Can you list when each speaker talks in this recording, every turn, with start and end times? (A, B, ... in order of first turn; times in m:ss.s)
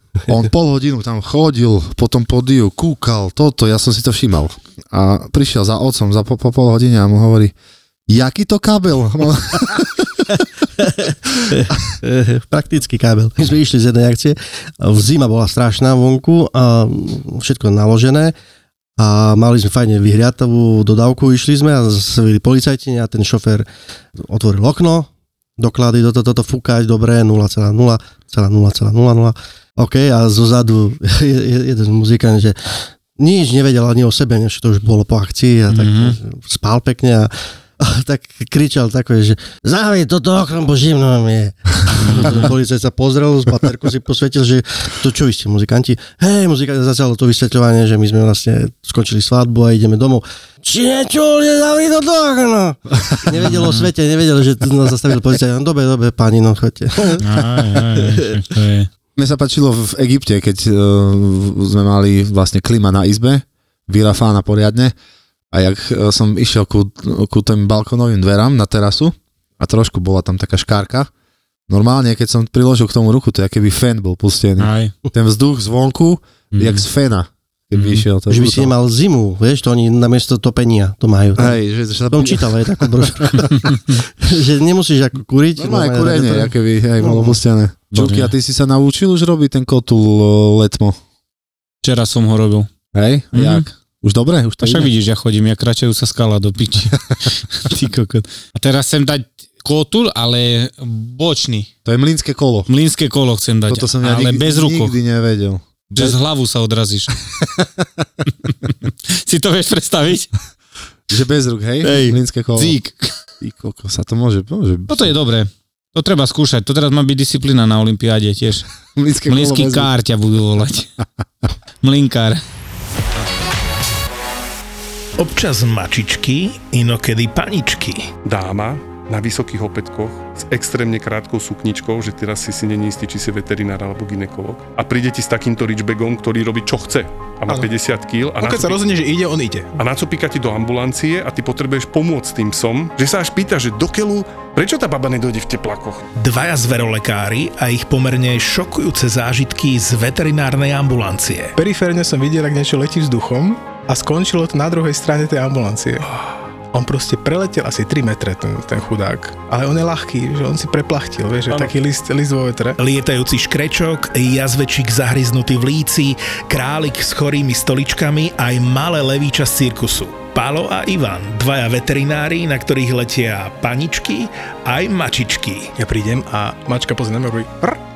0:00.3-0:07.5 A
0:08.1-0:10.1 A
0:10.8-0:18.3 B
0:19.0-0:23.7 B
0:24.2-0:25.1 B
0:25.6-0:57.2 B
0:35.7-0:36.2 C
0:42.1-0:42.5 C
0:53.3-0:53.9 C
0:57.2-0:58.9 C
0:59.2-1:04.9 A
1:05.5-1:11.1 A
1:11.7-1:18.7 A
1:14.6-1:14.9 C
1:16.5-1:16.8 C
1:17.7-1:18.1 C
1:18.3-1:21.6 B
1:21.4-1:22.7 A
1:22.1-1:27.4 B
1:25.6-1:31.0 A
1:27.9-1:28.3 C
1:31.8-1:32.7 C
1:32.9-1:34.9 A
1:33.3-1:33.7 C
1:34.6-1:41.7 C
1:41.8-1:42.7 A
1:42.7-1:45.0 C
1:43.7-1:46.2 A
1:46.0-1:47.1 C
1:48.9-1:50.3 C
1:51.1-1:52.8 A
1:51.8-1:53.1 C
1:53.4-1:55.2 A
1:54.9-1:58.7 C
1:59.0-1:59.9 A
1:59.3-2:00.9 C
2:01.8-2:02.4 C
2:05.2-2:08.1 D
2:08.2-2:18.9 E
2:18.4-2:19.7 F
2:19.8-2:26.0 E
2:26.2-2:31.5 D
2:31.6-2:36.0 F
2:36.7-2:42.8 F
2:42.8-2:55.8 D
2:55.8-2:57.8 F